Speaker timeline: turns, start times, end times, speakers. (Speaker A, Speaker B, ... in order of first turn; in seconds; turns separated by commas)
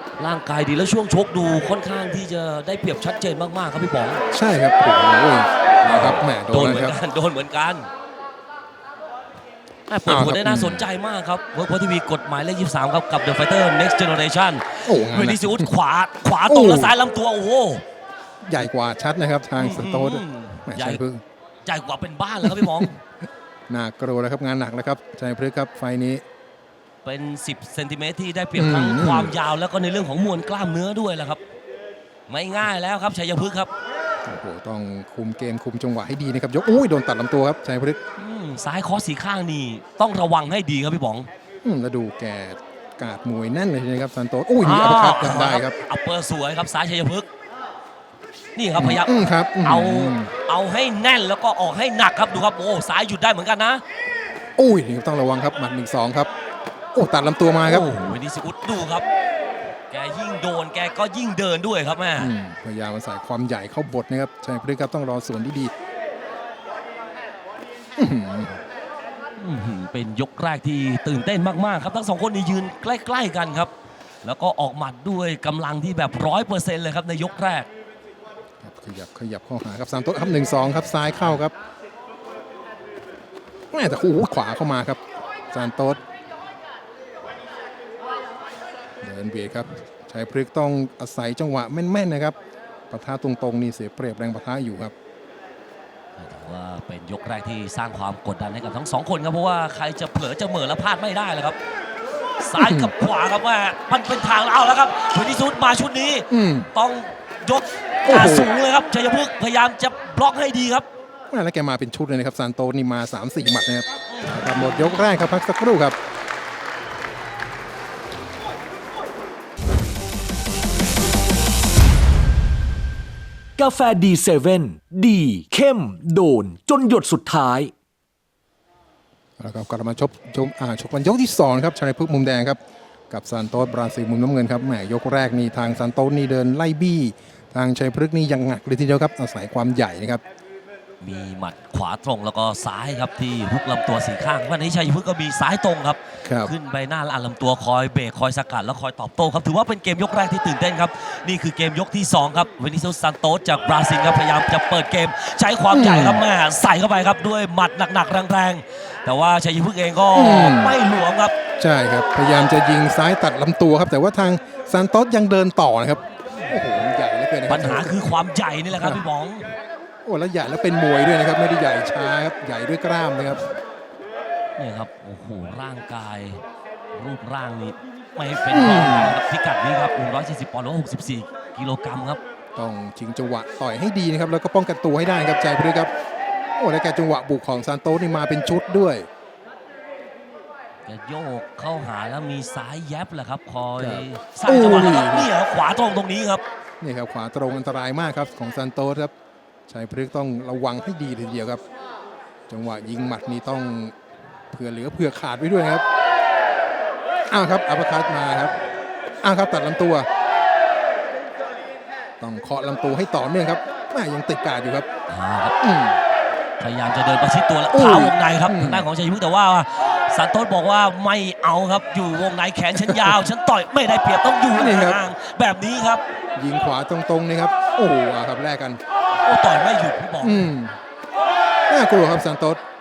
Speaker A: 0.2-4.2, Speaker B: 4.3-7.0, Speaker A: 5.8-7.9, Speaker A: 9.9-17.8, Speaker B: 10.1-10.8, Speaker B: 14.9-15.7, Speaker B: 16.5-16.9, Speaker B: 18.4-21.2, Speaker A: 19.6-21.0, Speaker A: 21.6-22.9, Speaker B: 22.4-22.9, Speaker B: 23.7-26.2, Speaker A: 27.0-31.4, Speaker B: 28.6-29.4, Speaker A: 32.3-33.7, Speaker B: 34.2-38.0, Speaker A: 38.2-41.3, Speaker B: 41.6-45.8, Speaker A: 44.6-47.2, Speaker A: 48.5-53.8, Speaker B: 48.8-50.3, Speaker B: 54.6-56.3, Speaker B: 56.9-57.9, Speaker A: 57.6-59.1, Speaker A: 59.9-62.3, Speaker B: 62.2-65.7, Speaker B: 68.0-68.6, Speaker A: 69.4-73.7, Speaker A: 74.2-77.7, Speaker B: 78.6-81.5, Speaker B: 83.7-85.0, Speaker B: 85.5-86.0, Speaker B: 89.0-92.4, Speaker B: 92.9-94.9, Speaker A: 96.2-101.6, Speaker A: 102.4-110.9, Speaker B: 102.5-102.9, Speaker B: 106.3-106.7, Speaker B: 108.0-108.5, Speaker B: 111.3-116.0, Speaker A: 114.1-115.1, Speaker C: 123.6-127.7, Speaker B: 129.4-140.2, Speaker A: 141.0-161.3, Speaker B: 146.2-146.5, Speaker B: 155.7-156.2, Speaker B: 160.1-160.8, Speaker B: 161.6-168.0, Speaker A: 167.5-169.5, Speaker B: 168.7-169.0, Speaker B: 170.1-173.4, Speaker A: 174.6-182.2, Speaker B: 178.5-179.2, Speaker B: 182.6-185.9, Speaker B: 186.6-189.1, Speaker A: 190.9-196.4, Speaker B: 193.8-195.3, Speaker B: 196.8-199.1, Speaker B: 199.7-201.6, Speaker B: 202.5-203.9, Speaker B: 204.5-205.8, Speaker B: 207.3-208.5, Speaker B: 209.2-210.1, Speaker B: 212.2-214.9, Speaker A: 215.1-215.6, Speaker B: 215.6-216.0, Speaker A: 216.6-226.0, Speaker B: 217.7-218.9, Speaker B: 222.7-223.2, Speaker B: 224.5-225.0, Speaker B: 226.4-228.8, Speaker A: 229.2-230.5, Speaker B: 230.2-230.8, Speaker B: 231.7-232.6